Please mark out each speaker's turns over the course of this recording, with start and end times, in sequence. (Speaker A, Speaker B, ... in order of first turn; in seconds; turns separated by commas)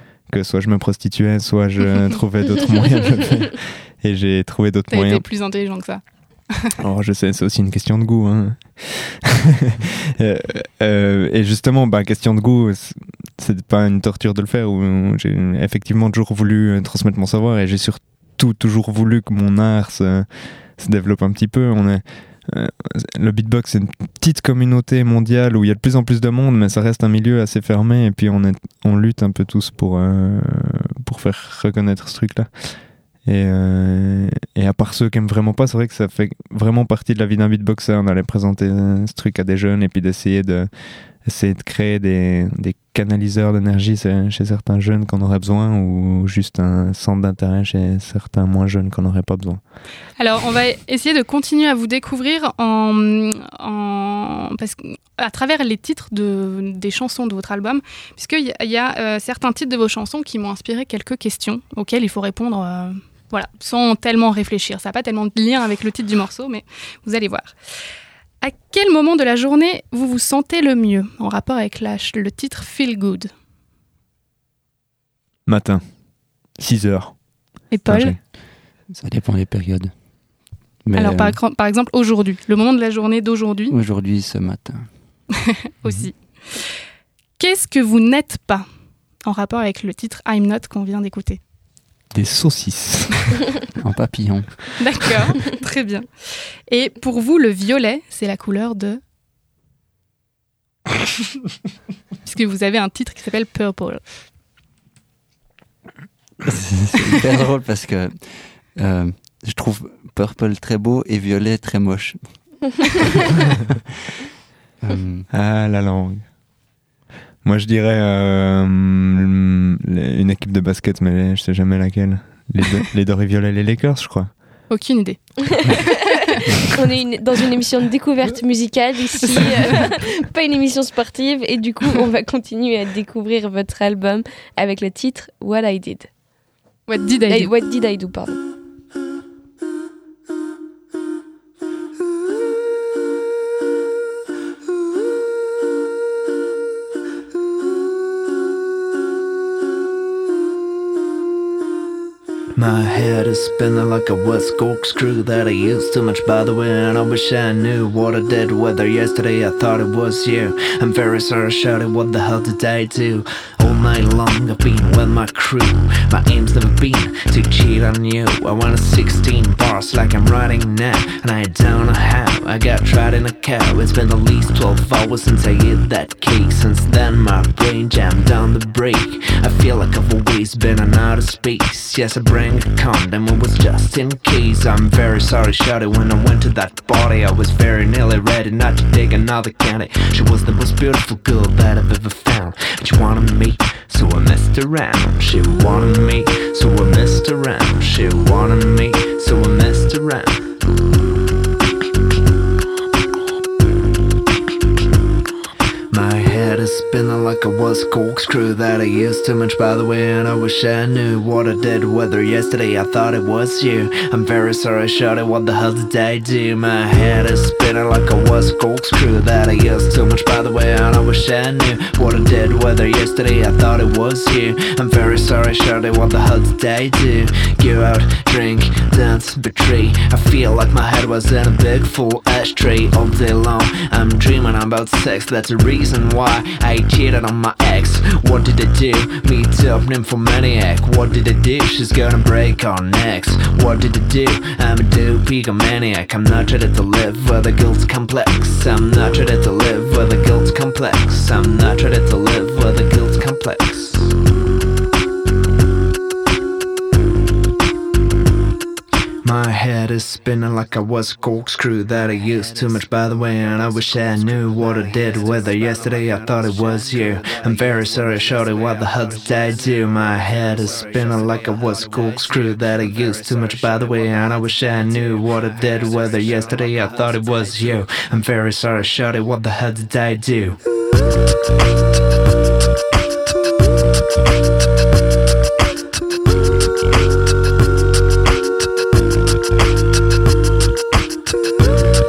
Speaker A: 0.3-5.2, Speaker B: 4.9-6.7, Speaker A: 6.8-40.7, Speaker A: 41.2-49.6, Speaker B: 50.2-67.5, Speaker B: 68.4-73.3, Speaker A: 75.5-75.9, Speaker A: 76.6-77.2, Speaker B: 77.7-78.2, Speaker A: 77.9-78.2, Speaker C: 78.9-79.9, Speaker C: 80.8-81.4, Speaker B: 81.0-83.7, Speaker C: 83.7-84.9, Speaker B: 85.8-86.6, Speaker B: 87.4-88.7, Speaker B: 89.2-91.4, Speaker A: 92.1-93.2, Speaker C: 93.8-94.7, Speaker B: 94.8-96.1, Speaker B: 96.7-99.0, Speaker B: 102.2-104.0, Speaker C: 106.5-112.7, Speaker C: 114.8-115.3, Speaker A: 115.3-116.2, Speaker A: 117.4-124.3, Speaker B: 124.7-126.0, Speaker D: 126.8-136.1, Speaker B: 136.9-137.5, Speaker D: 137.3-138.4, Speaker E: 152.6-200.5, Speaker E: 205.9-254.1, Speaker E: 259.2-280.6